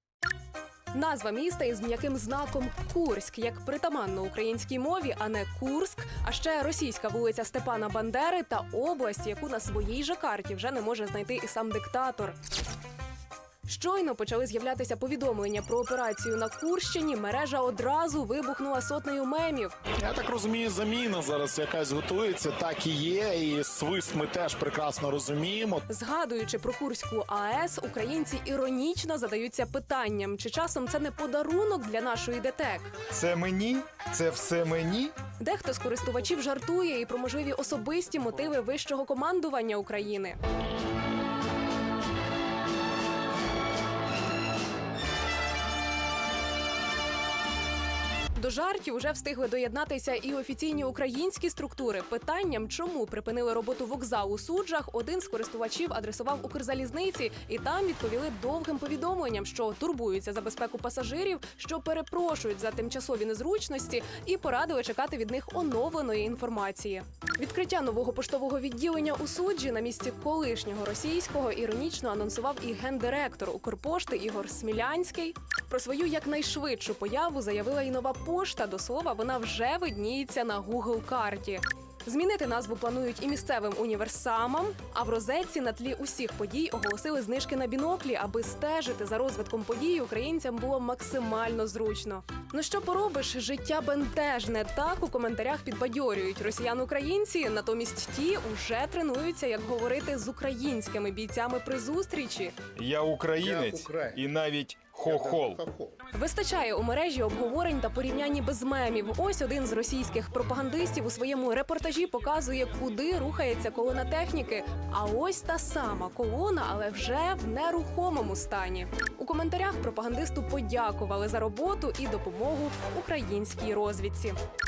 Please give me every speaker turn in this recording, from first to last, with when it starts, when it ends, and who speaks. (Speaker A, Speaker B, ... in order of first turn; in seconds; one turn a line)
Speaker A: 0.9-12.4
Speaker A: 13.7-19.8
Speaker B: 20.0-25.9
Speaker A: 25.9-32.9
Speaker C: 33.1-35.1
Speaker A: 35.4-40.4
Speaker A: 48.4-102.5
Speaker C: 102.8-105.7
Speaker A: 106.1-124.4